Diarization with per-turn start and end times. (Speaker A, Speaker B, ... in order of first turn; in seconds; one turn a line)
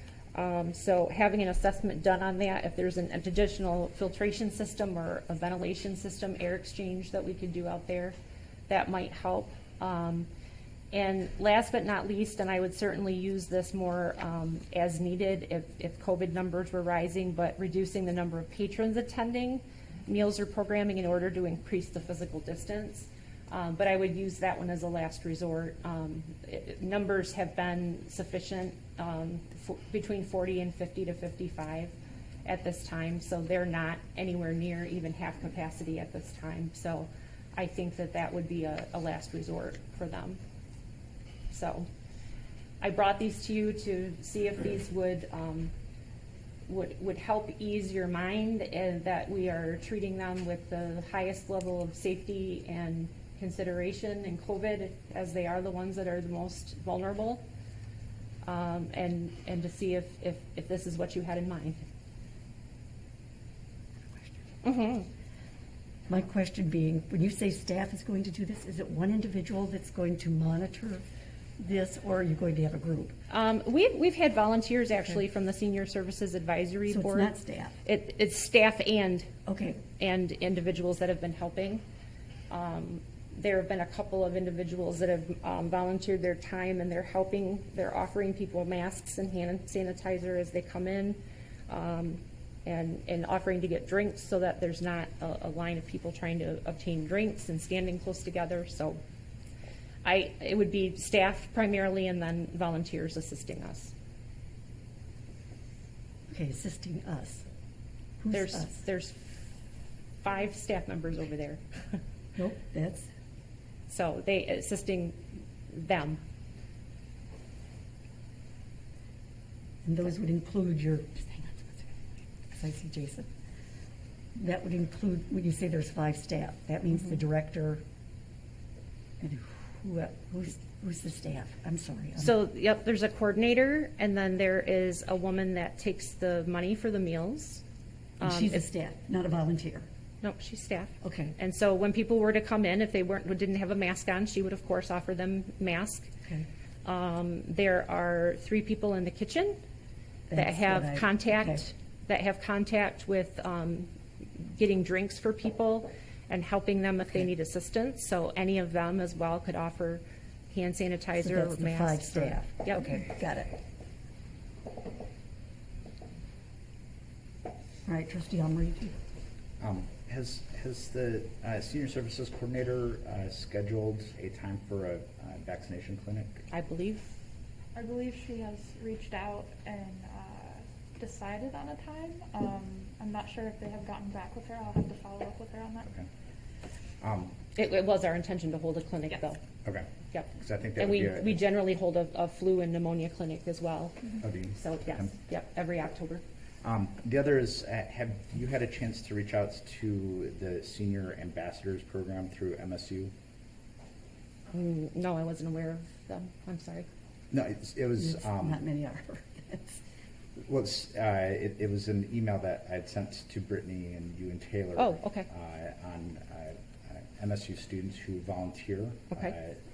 Speaker A: 0.3-8.2
Speaker A: 8.7-10.3
Speaker A: 10.9-31.9
Speaker A: 32.5-40.4
Speaker A: 41.5-41.9
Speaker A: 42.8-45.7
Speaker A: 46.7-57.4
Speaker A: 58.4-61.9
Speaker A: 64.6-65.1
Speaker B: 66.1-71.0
Speaker B: 71.6-73.2
Speaker A: 73.3-77.3
Speaker B: 76.9-77.8
Speaker A: 77.8-79.3
Speaker B: 79.5-79.8
Speaker A: 80.0-81.8
Speaker A: 82.5-91.2
Speaker A: 91.7-99.0
Speaker A: 100.0-103.9
Speaker B: 106.3-107.5
Speaker B: 108.2-108.8
Speaker A: 108.3-109.3
Speaker A: 110.2-112.0
Speaker B: 112.4-113.1
Speaker A: 113.9-115.2
Speaker A: 115.7-116.2
Speaker B: 119.8-123.3
Speaker B: 124.4-127.8
Speaker B: 129.2-132.4
Speaker A: 132.2-137.6
Speaker B: 138.2-139.9
Speaker A: 138.2-138.6
Speaker A: 140.2-146.1
Speaker B: 141.0-141.3
Speaker A: 146.8-149.6
Speaker B: 150.3-151.6
Speaker A: 150.3-163.0
Speaker B: 161.2-163.5
Speaker B: 167.9-169.0
Speaker C: 169.6-176.4
Speaker A: 176.5-177.1
Speaker D: 177.8-185.9
Speaker C: 187.0-187.3
Speaker A: 187.6-189.4
Speaker C: 189.7-191.4
Speaker A: 190.1-196.2
Speaker C: 194.2-195.1
Speaker C: 196.6-203.1
Speaker A: 204.5-206.9
Speaker C: 207.3-208.6
Speaker B: 208.0-209.8
Speaker C: 210.5-219.6
Speaker A: 214.8-215.3